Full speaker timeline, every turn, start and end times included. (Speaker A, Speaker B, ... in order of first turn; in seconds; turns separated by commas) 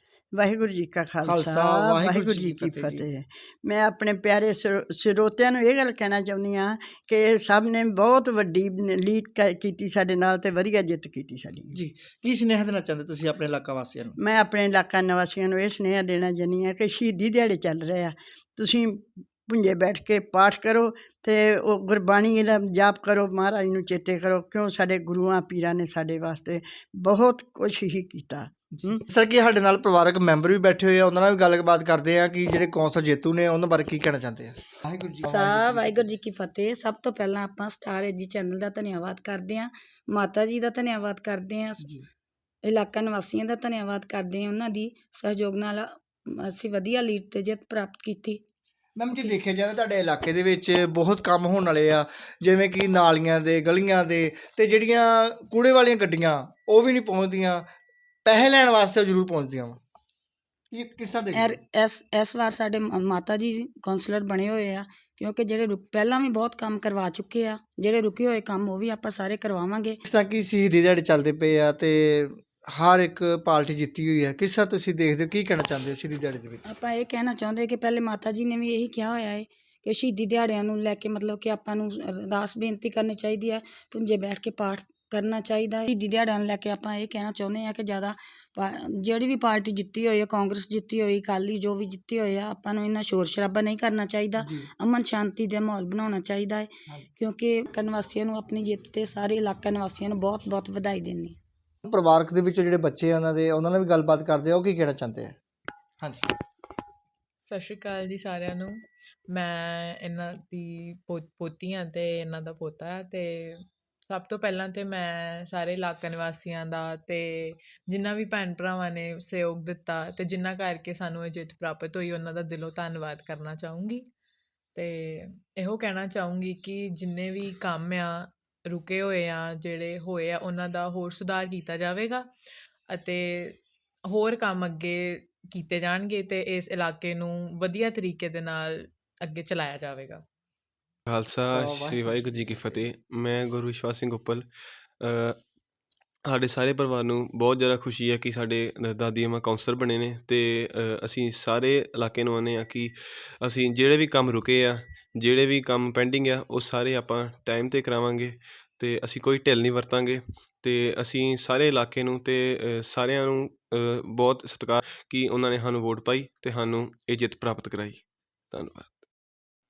Speaker A: 0.3-11.8, Speaker B: 1.3-3.0, Speaker B: 11.7-14.2, Speaker A: 14.2-29.0, Speaker B: 29.1-36.0, Speaker C: 35.2-41.9, Speaker C: 42.6-48.4, Speaker B: 49.0-57.7, Speaker B: 58.2-59.8, Speaker B: 60.7-61.6, Speaker C: 61.3-70.0, Speaker B: 70.1-76.7, Speaker C: 76.7-101.4, Speaker B: 94.4-94.7, Speaker B: 101.8-105.4, Speaker D: 107.5-108.8, Speaker D: 109.3-124.1, Speaker D: 124.8-132.3, Speaker D: 132.9-140.2, Speaker E: 141.1-144.5, Speaker B: 141.5-142.8, Speaker E: 145.0-145.4, Speaker E: 146.3-169.0